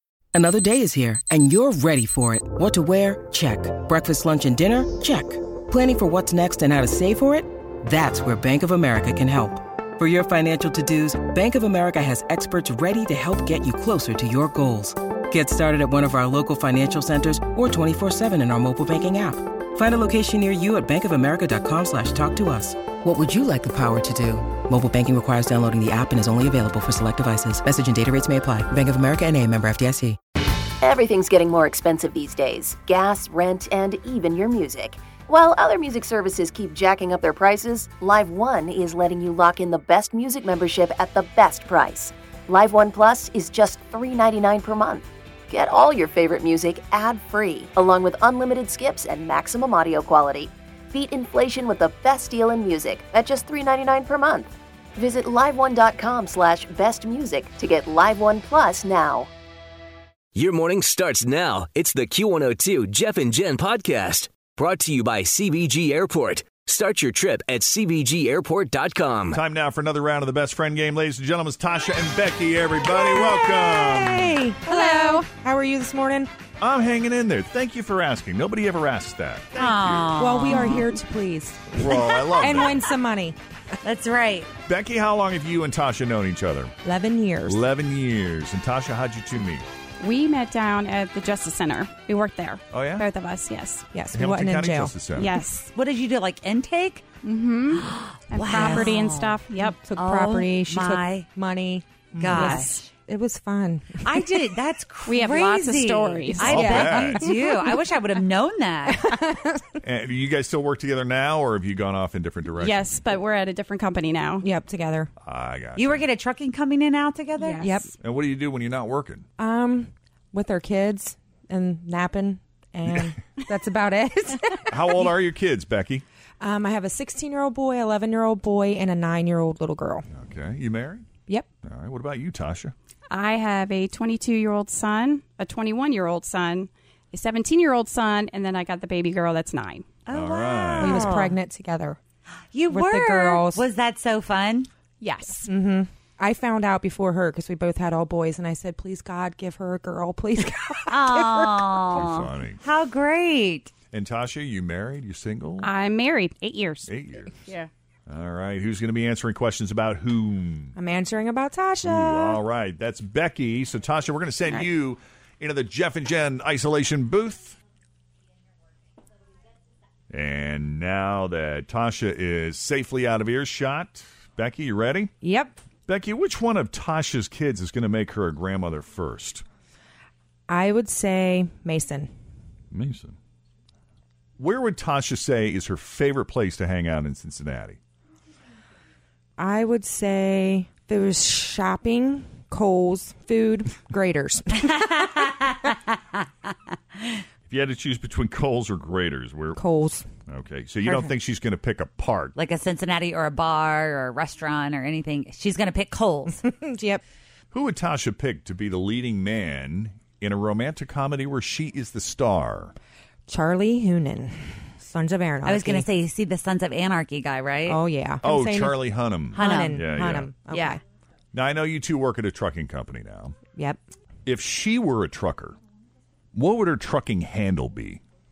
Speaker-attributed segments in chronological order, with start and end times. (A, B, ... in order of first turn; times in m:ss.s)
0:00.3-0:30.2 A
0:30.8-0:59.3 B
1:00.3-1:09.4 C
1:09.3-1:14.4 D
1:13.0-1:16.3 E
1:14.7-1:15.2 F
1:16.6-1:20.1 D
1:19.6-1:20.9 G
1:20.2-1:23.4 E
1:21.7-1:22.8 D
1:23.8-1:24.5 G
1:24.7-1:26.7 D
1:26.8-1:27.6 E
1:27.4-1:29.6 D
1:30.0-1:33.8 F
1:32.7-1:33.0 D
1:33.9-1:34.9 E
1:34.1-1:35.3 D
1:35.1-1:35.7 F
1:35.4-1:37.0 G
1:37.2-1:39.8 F
1:37.8-1:41.2 G
1:38.5-1:38.8 E
1:39.8-1:44.1 E
1:42.1-1:42.6 D
1:42.2-1:42.9 G
1:44.0-1:49.1 G
1:45.0-1:46.5 F
1:46.4-1:47.3 D
1:46.4-1:47.6 E
1:48.9-1:49.6 E
1:49.8-1:53.0 D
1:52.6-1:54.4 F
1:54.4-1:55.1 E
1:55.2-1:56.1 D
1:55.8-1:57.7 G
1:57.4-1:57.9 F
1:57.6-1:57.9 E
1:58.0-1:59.2 D
1:59.4-2:05.0 E
2:04.7-2:06.0 D
2:06.4-2:10.0 E
2:10.1-2:11.0 D
2:11.6-2:12.7 D
2:13.1-2:19.8 F
2:20.1-2:21.4 G
2:20.1-2:21.1 D
2:20.8-2:22.0 E
2:22.5-2:24.7 G
2:22.7-2:23.6 E
2:25.0-2:25.5 F
2:25.5-2:31.7 E
2:30.9-2:33.7 G
2:31.9-2:32.6 D
2:33.9-2:35.7 D
2:35.6-2:36.9 F
2:36.8-2:37.3 D
2:38.1-2:40.7 D
2:40.8-2:42.4 E
2:41.8-2:47.6 D
2:50.1-2:55.1 D
2:55.2-2:55.6 E
2:55.9-2:59.4 D
3:00.5-3:02.1 E
3:02.7-3:03.1 D
3:04.4-3:07.8 D
3:09.4-3:14.7 E
3:17.5-3:19.6 D
3:19.6-3:20.0 E
3:20.3-3:22.3 D
3:22.3-3:26.4 G
3:26.4-3:27.0 E
3:27.5-3:32.7 D
3:33.3-3:35.9 E
3:35.4-3:37.8 G
3:37.7-3:40.8 E
3:38.2-3:40.4 D
3:39.3-3:39.8 G
3:40.5-3:40.8 G
3:41.3-3:43.3 D
3:43.5-3:43.8 E
3:44.2-3:45.6 D
3:46.3-3:48.0 D